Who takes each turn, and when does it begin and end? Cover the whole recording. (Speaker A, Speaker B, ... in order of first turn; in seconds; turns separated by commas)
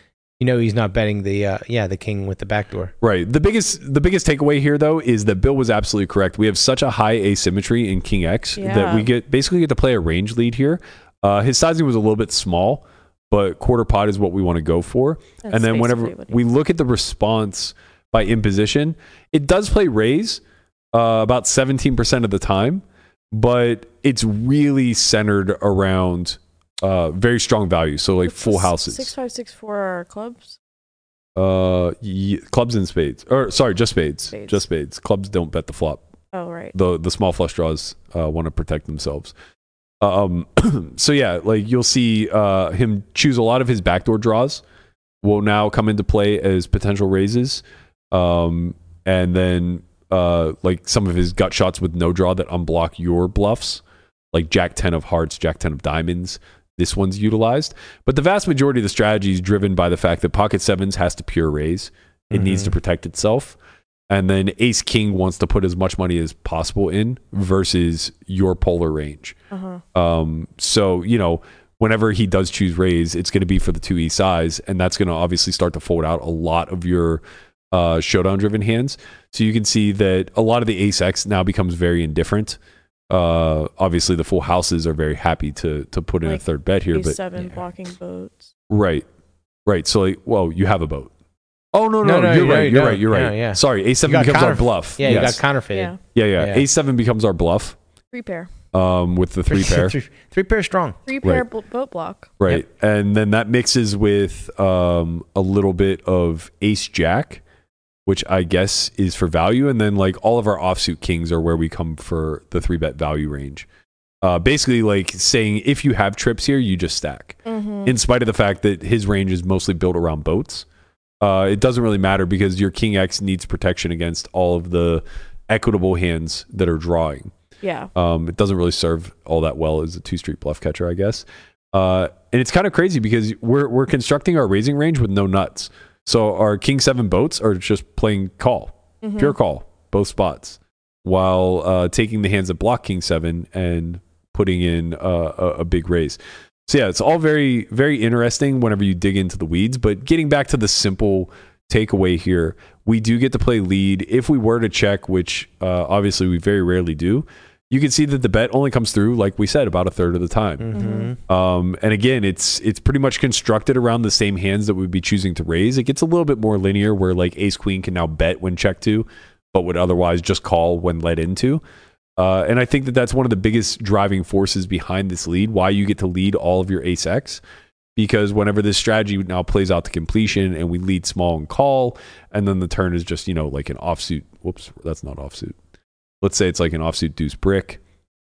Speaker A: 0.4-2.9, Speaker B: 3.0-20.4, Speaker C: 8.6-9.1, Speaker C: 15.4-16.4, Speaker B: 20.9-29.1, Speaker C: 28.2-30.6, Speaker B: 31.4-36.0, Speaker C: 34.3-34.6, Speaker C: 36.3-36.8, Speaker B: 36.7-39.3, Speaker B: 40.0-44.6, Speaker B: 45.2-63.6, Speaker A: 62.3-62.7, Speaker B: 64.1-69.3, Speaker C: 69.5-69.8, Speaker B: 70.0-82.6, Speaker B: 83.1-87.2, Speaker C: 86.2-88.5, Speaker B: 88.7-89.0, Speaker B: 89.7-91.1, Speaker B: 91.7-95.4, Speaker A: 92.0-96.7, Speaker C: 95.1-96.0, Speaker B: 96.1-97.8, Speaker C: 98.1-98.5, Speaker B: 98.7-100.0, Speaker A: 99.5-101.0, Speaker C: 101.1-102.3, Speaker B: 102.4-107.4, Speaker B: 108.1-113.7, Speaker B: 114.2-120.7, Speaker C: 117.5-118.0, Speaker B: 121.2-127.3, Speaker C: 127.6-127.9, Speaker B: 128.0-160.7, Speaker C: 139.0-139.4, Speaker A: 160.6-161.2, Speaker C: 160.7-161.1, Speaker B: 161.3-171.6, Speaker B: 172.2-177.4, Speaker B: 178.0-185.6, Speaker B: 186.2-187.8